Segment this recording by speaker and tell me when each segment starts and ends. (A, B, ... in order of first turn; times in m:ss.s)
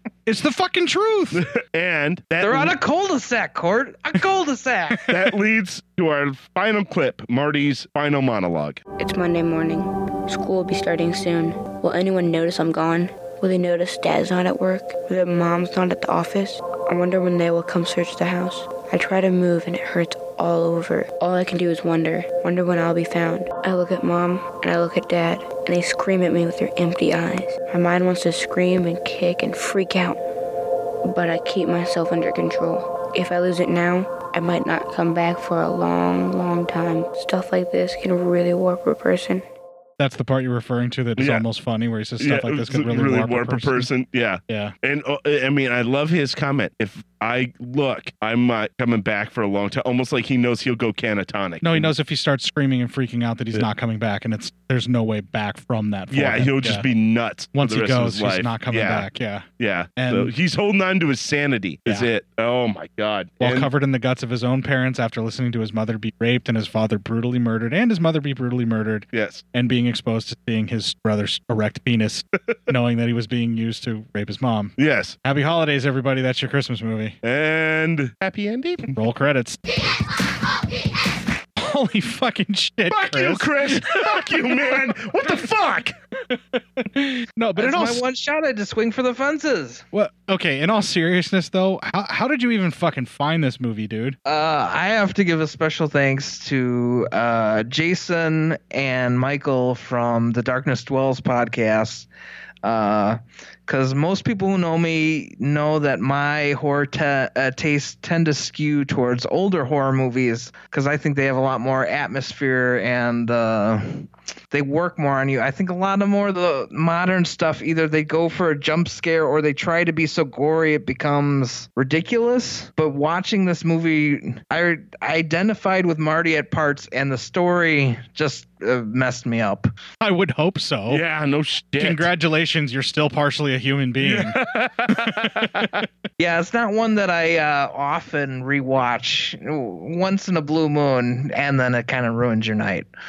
0:00.2-0:01.4 A
0:01.3-0:02.8 B
0:02.4-0:05.0 C
0:05.1-0:08.8 B
0:09.0-0:30.2 D
0:31.0-0:39.4 D
0:40.0-0:43.9 A
0:41.2-0:41.4 B
0:42.2-0:51.9 B
0:44.5-0:44.7 A
0:51.6-0:56.8 A
0:56.1-0:59.1 B
0:57.5-0:59.4 A
0:59.6-1:03.7 B
1:00.0-1:00.3 A
1:03.4-1:17.2 A
1:09.1-1:09.4 B
1:14.8-1:15.2 B
1:17.2-1:18.9 B
1:18.9-1:19.6 A
1:21.6-1:24.4 A
1:22.9-1:25.9 B
1:26.8-1:28.0 A
1:27.6-1:29.8 C
1:29.9-1:34.2 A
1:34.2-1:42.1 C
1:42.6-2:09.7 C
2:10.0-2:11.0 A
2:10.9-2:12.1 B
2:11.8-2:14.4 A
2:14.0-2:15.8 B
2:14.9-2:15.7 A
2:16.2-2:22.9 C